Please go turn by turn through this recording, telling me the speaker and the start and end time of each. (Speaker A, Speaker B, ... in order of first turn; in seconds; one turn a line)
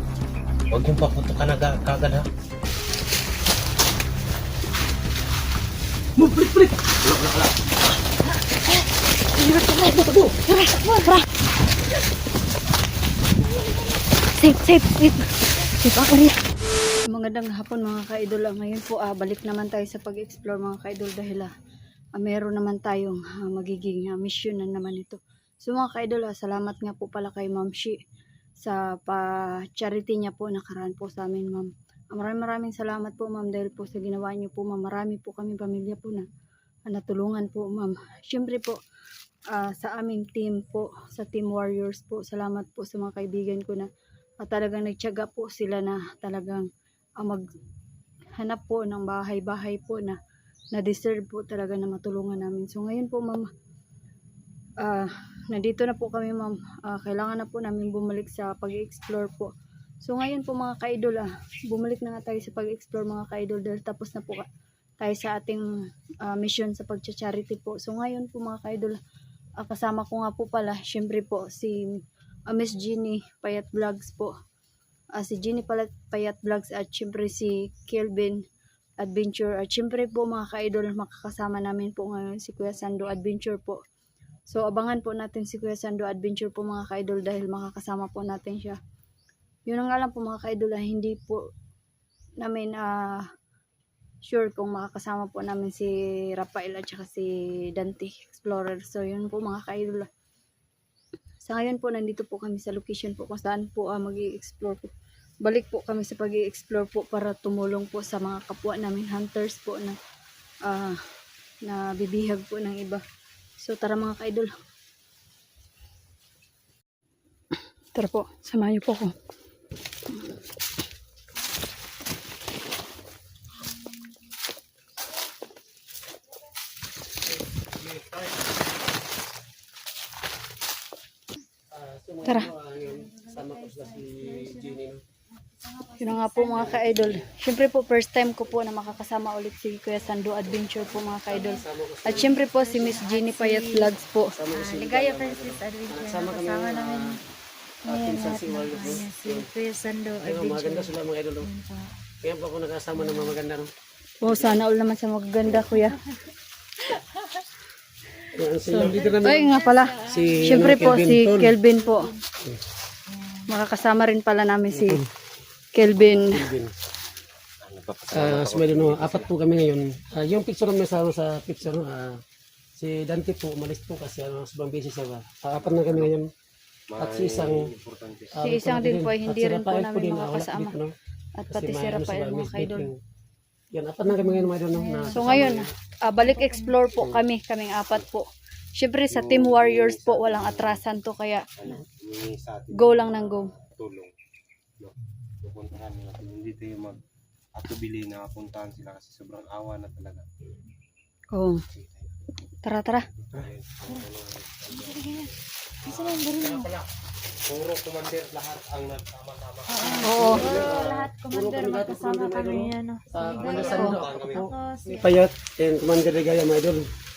Speaker A: 0.7-2.3
Speaker B: 6.2-6.8
Speaker A: 7.0-7.5
Speaker B: 9.4-10.3
Speaker C: 9.5-11.2
Speaker C: 14.3-16.4
Speaker C: 17.1-21.5
Speaker C: 22.1-28.0
Speaker C: 28.6-36.3
Speaker C: 36.9-38.8
Speaker C: 39.5-43.9
Speaker C: 44.4-46.7
Speaker C: 48.4-50.2
Speaker C: 50.7-53.5
Speaker C: 54.8-59.5
Speaker C: 60.0-64.5
Speaker C: 65.0-65.7
Speaker C: 66.2-69.0
Speaker C: 69.6-72.0
Speaker C: 72.5-74.3
Speaker C: 75.2-78.4
Speaker C: 79.0-83.8
Speaker C: 84.5-88.8
Speaker C: 89.7-91.4
Speaker C: 92.4-93.2
Speaker C: 94.3-100.1
Speaker C: 101.4-104.9
Speaker C: 105.4-110.0
Speaker C: 110.7-111.0
Speaker C: 111.7-113.0
Speaker C: 113.6-114.5
Speaker C: 117.9-119.1
Speaker B: 131.7-135.0
Speaker D: 132.8-134.8
Speaker D: 135.6-136.9
Speaker C: 136.0-144.3
Speaker B: 136.5-137.2
Speaker B: 141.2-142.4
Speaker D: 142.1-143.9
Speaker B: 144.4-147.2
Speaker D: 144.5-147.2
Speaker D: 147.8-152.0
Speaker B: 147.9-149.5
Speaker B: 150.2-151.5
Speaker B: 152.2-153.7
Speaker D: 153.0-153.4
Speaker C: 154.2-156.0
Speaker B: 158.3-161.5
Speaker C: 158.7-162.1
Speaker D: 158.8-160.9
Speaker D: 161.7-162.2
Speaker D: 163.1-163.6
Speaker C: 163.5-165.0
Speaker B: 164.7-165.1
Speaker C: 165.7-166.4
Speaker B: 165.8-166.7
Speaker A: 167.6-169.3
Speaker B: 168.1-172.2
Speaker B: 172.8-176.3
Speaker A: 175.6-176.1
Speaker A: 176.9-178.4
Speaker B: 176.9-177.7
Speaker B: 178.3-180.9
Speaker C: 178.4-180.8
Speaker C: 181.4-182.9
Speaker B: 181.5-183.0
Speaker B: 183.7-185.7
Speaker D: 184.7-185.5
Speaker C: 185.1-191.4
Speaker D: 186.2-186.8
Speaker A: 186.9-187.2
Speaker A: 189.1-190.8
Speaker A: 191.6-194.1
Speaker C: 192.8-193.5
Speaker A: 194.8-197.0
Speaker A: 197.5-200.2
Speaker C: 201.3-201.6
Speaker A: 201.7-202.1
Speaker C: 202.6-203.0
Speaker A: 203.2-206.9
Speaker D: 204.7-205.3
Speaker D: 205.8-206.7
Speaker A: 207.5-210.8
Speaker D: 209.7-215.2
Speaker C: 210.0-210.4
Speaker B: 210.2-216.9
Speaker A: 213.3-214.5
Speaker C: 213.7-213.9